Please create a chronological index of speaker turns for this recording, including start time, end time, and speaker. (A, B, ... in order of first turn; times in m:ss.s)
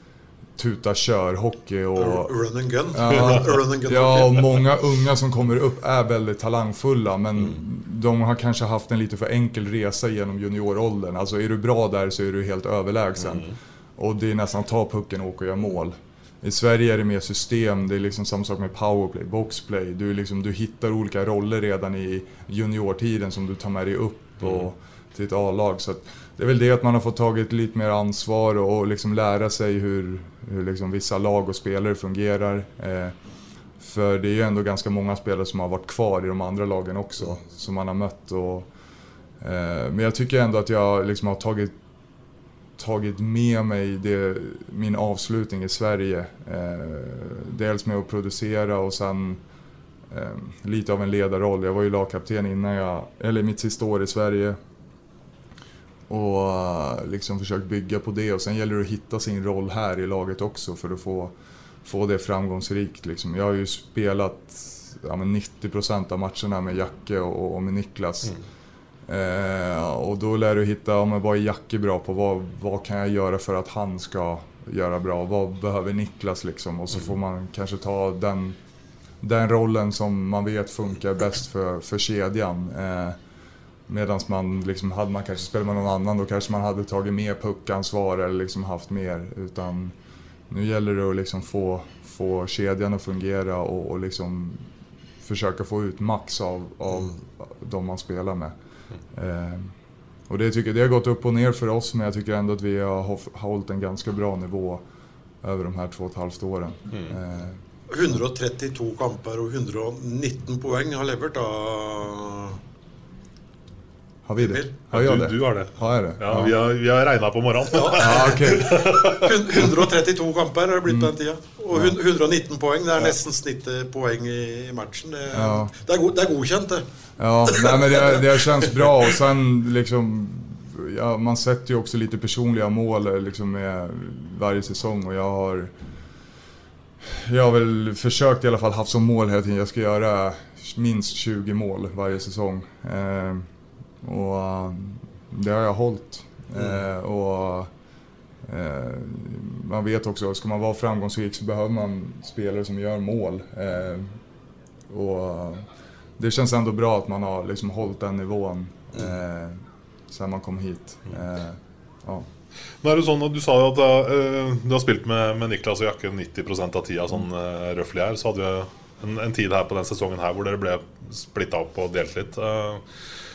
0:00.6-0:02.3 A
0:02.0-0:04.4 B
0:02.9-0:33.1 A
0:13.2-0:13.5 C
0:33.8-0:38.7 A
0:39.4-0:41.7 A
0:42.8-0:49.4 A
0:50.1-0:54.6 A
0:56.1-1:01.3 A
1:01.8-1:08.4 A
1:09.1-1:18.6 A
1:19.2-1:23.2 A
1:23.9-1:29.9 A
1:30.5-1:34.6 A
1:35.2-1:38.5 A
1:39.1-1:39.7 A
1:40.3-1:44.8 A
1:45.4-1:47.6 A
1:47.9-1:52.6 B
1:54.2-1:56.5 A
1:54.4-1:54.7 B
1:54.9-1:59.7 C
1:57.7-2:06.8 B
1:57.9-1:58.8 A
2:00.8-2:01.1 A
2:05.3-2:05.7 A
2:07.2-2:15.7 A
2:07.5-2:08.8 B
2:17.0-2:23.5 A
2:24.0-2:27.7 A
2:28.4-2:34.2 A
2:34.9-2:35.7 A
2:36.2-2:42.3 A
2:42.8-2:52.8 C